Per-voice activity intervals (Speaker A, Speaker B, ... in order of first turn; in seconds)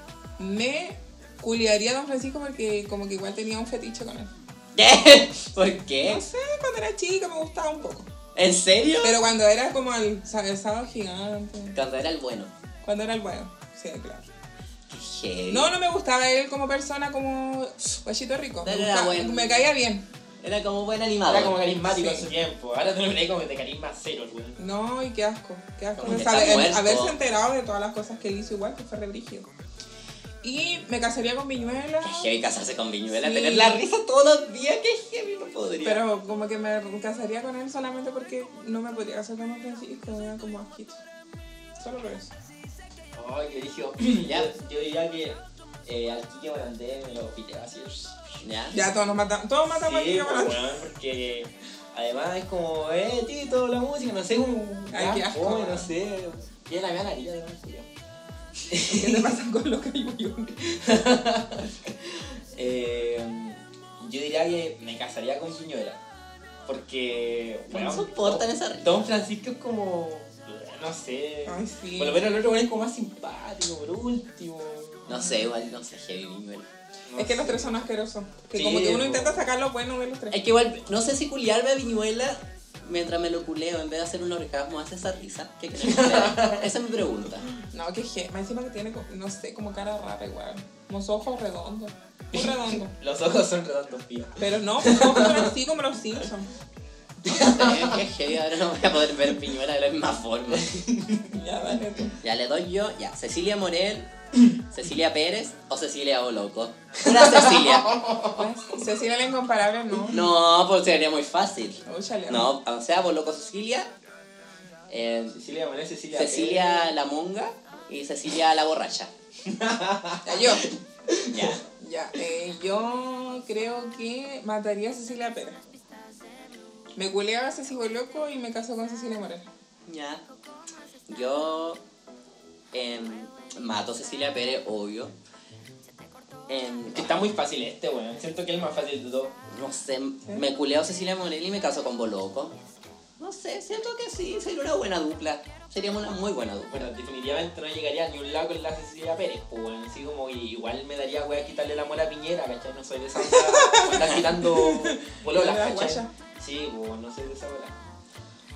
Speaker A: 0.4-4.3, 6.0-8.1, 9.0-11.8, 12.8-14.2, 15.5-20.1, 21.9-22.3, 24.6-29.5, 30.4-32.3, 33.1-33.8, 35.8-41.0, 41.8-42.3, 48.7-50.8, 54.9-55.9, 58.8-60.5, 71.5-72.2, 77.2-80.4, 87.7-92.9, 94.4-96.5, 101.3-102.2, 108.3-110.2, 111.8-112.5, 120.2-120.7, 121.8-125.6, 127.0-129.4, 153.2-156.1
Speaker B: 4.7-6.2, 8.3-9.2, 11.7-12.5, 14.9-15.7, 18.6-19.7, 20.4-21.6, 26.0-27.1, 32.0-36.0, 44.2-44.5, 48.4-48.8, 67.7-69.1, 75.1-76.7, 80.3-87.5, 97.3-100.7, 102.2-104.1, 104.7-108.0, 110.1-113.9, 114.9-115.4, 116.1-119.1, 121.3-121.6, 129.9-130.2, 131.1-131.8, 132.7-135.1, 136.5-137.2, 139.5-142.5, 143.2-146.9
Speaker C: 21.2-24.6, 43.1-48.5, 49.7-57.9, 58.7-59.4, 60.6-66.0, 66.7-75.2, 77.1-77.8, 78.5-79.4, 85.8-86.7, 92.3-95.5, 97.2-98.0, 100.5-101.3, 107.0-108.4, 115.3-116.9, 119.4-121.6, 136.9-139.3, 146.7-157.8